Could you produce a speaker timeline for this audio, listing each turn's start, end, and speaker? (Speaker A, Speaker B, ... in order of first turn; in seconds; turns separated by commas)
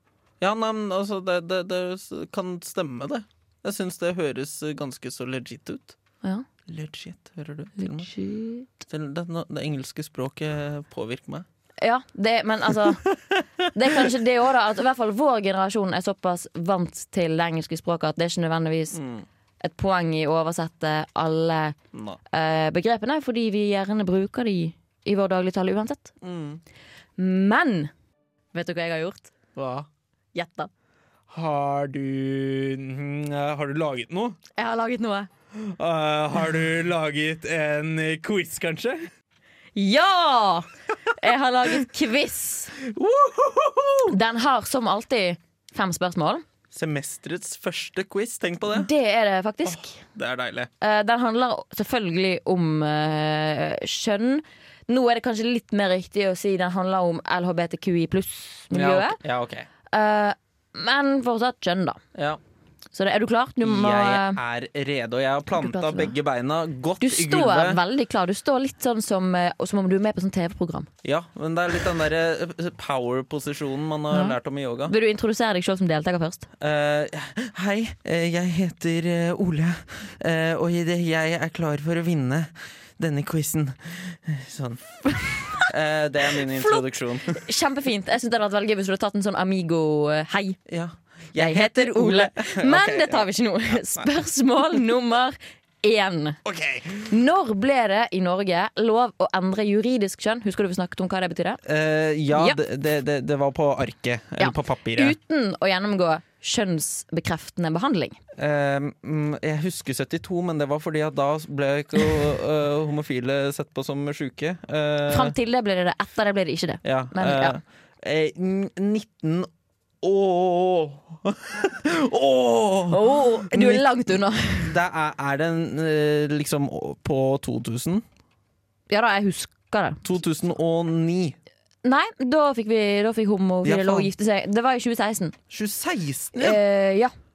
Speaker A: 0.4-6.0, Speaker A: 6.7-8.1, Speaker B: 7.8-8.7, Speaker A: 8.9-11.5, Speaker B: 11.8-13.1, Speaker A: 13.1-14.2, Speaker B: 13.7-19.0, Speaker A: 18.9-19.2, Speaker B: 19.6-21.8, Speaker A: 21.9-22.2, Speaker B: 22.3-26.1, Speaker A: 26.2-26.6, Speaker B: 27.2-27.9, Speaker B: 28.5-29.3, Speaker A: 29.6-29.9, Speaker B: 30.3-30.7, Speaker A: 31.3-34.4, Speaker B: 34.5-35.3, Speaker A: 35.5-39.1, Speaker B: 39.8-42.8, Speaker A: 42.8-44.2, Speaker B: 44.1-46.4, Speaker A: 46.7-48.9, Speaker B: 48.7-50.0, Speaker A: 49.7-50.7, Speaker B: 50.8-59.2, Speaker A: 58.7-59.7, Speaker B: 59.9-62.0, Speaker A: 62.1-62.4, Speaker B: 62.9-64.4, Speaker A: 63.6-67.8, Speaker B: 65.5-66.2, Speaker B: 67.0-70.9, Speaker A: 71.0-74.9, Speaker B: 74.1-74.4, Speaker B: 74.9-76.5, Speaker A: 76.6-87.4, Speaker B: 86.3-90.6, Speaker A: 90.7-94.1, Speaker B: 91.4-96.4, Speaker A: 96.5-97.1, Speaker B: 97.0-101.6, Speaker A: 101.6-105.2, Speaker B: 102.3-102.6, Speaker B: 104.4-108.2, Speaker A: 108.4-115.4, Speaker B: 115.1-117.6, Speaker A: 116.8-119.5, Speaker A: 120.0-128.1, Speaker B: 122.9-124.7, Speaker B: 128.9-130.0, Speaker A: 130.0-131.4, Speaker B: 131.8-135.3, Speaker A: 133.6-134.1, Speaker A: 135.5-136.6, Speaker B: 136.3-137.1